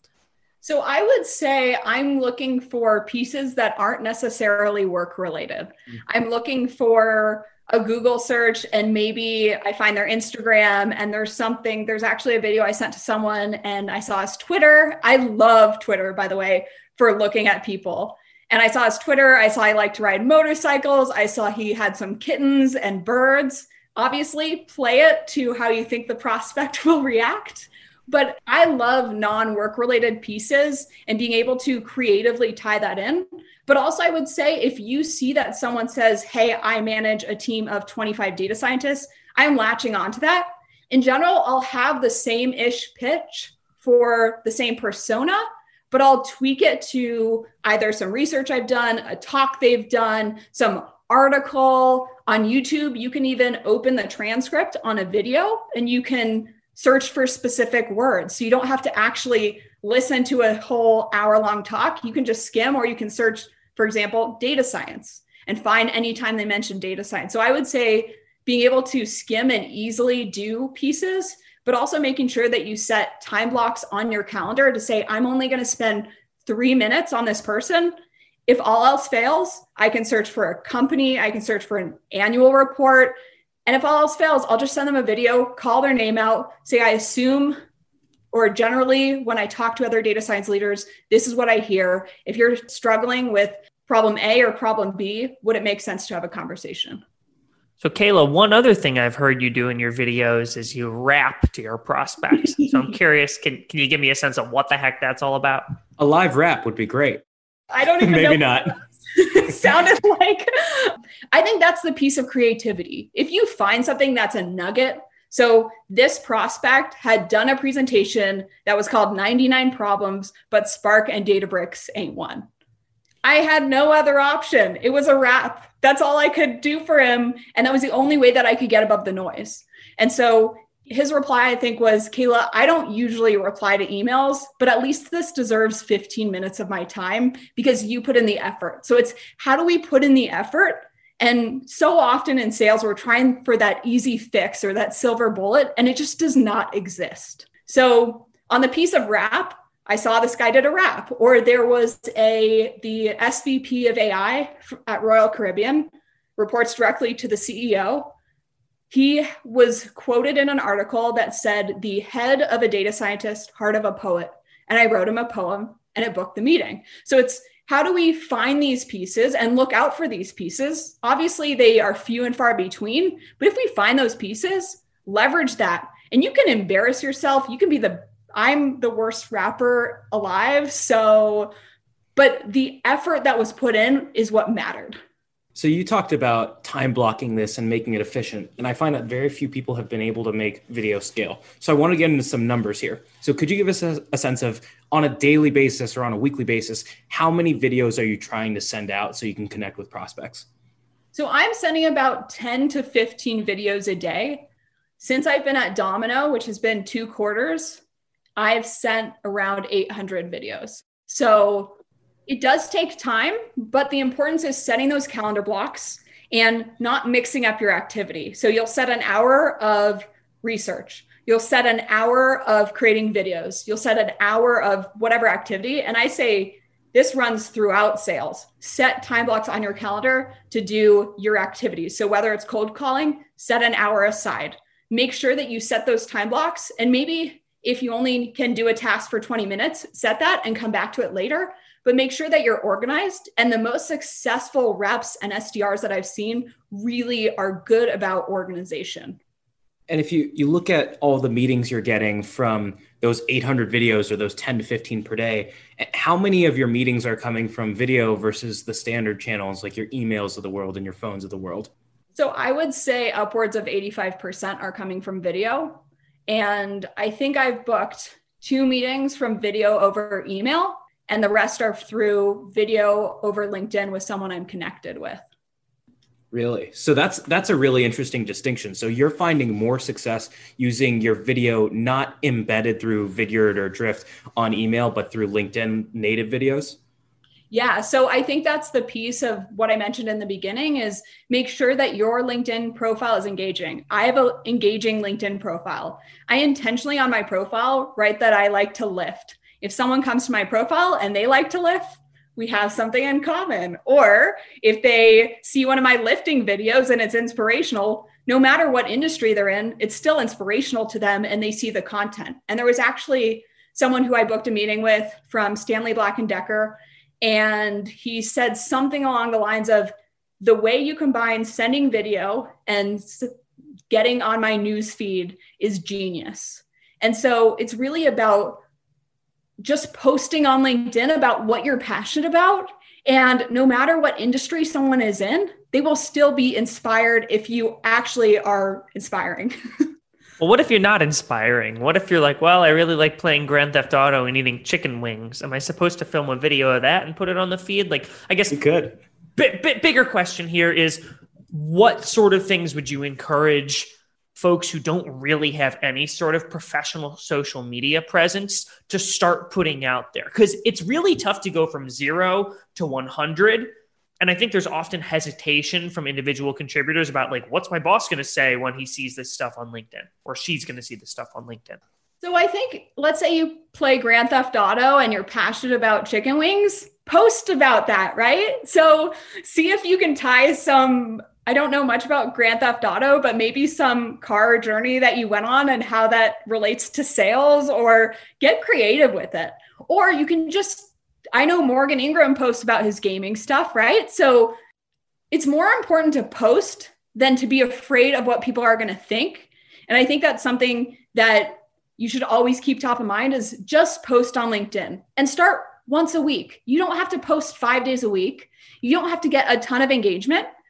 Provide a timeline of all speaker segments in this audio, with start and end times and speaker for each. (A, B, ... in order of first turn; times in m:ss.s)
0:00.6-1:17.9 A
1:18.5-1:27.6 A
1:28.3-1:37.0 A
1:37.8-1:45.7 B
1:46.0-1:47.2 C
1:47.7-2:02.4 A
1:48.0-1:48.7 C
2:03.2-2:38.1 A
2:38.9-3:01.5 A
3:02.2-3:05.0 A
3:05.5-3:20.4 C
3:21.1-3:24.5 A
3:25.0-3:27.8 A
3:28.4-4:09.2 A
4:09.9-4:21.7 C
4:22.1-4:35.2 A
4:36.3-4:46.8 C
4:47.5-5:23.3 A
5:23.9-5:28.6 A
5:29.6-5:39.5 A
5:40.4-5:48.6 B
5:48.5-5:49.0 C
5:49.4-6:11.8 B
6:12.2-6:34.6 A
6:35.3-6:50.5 A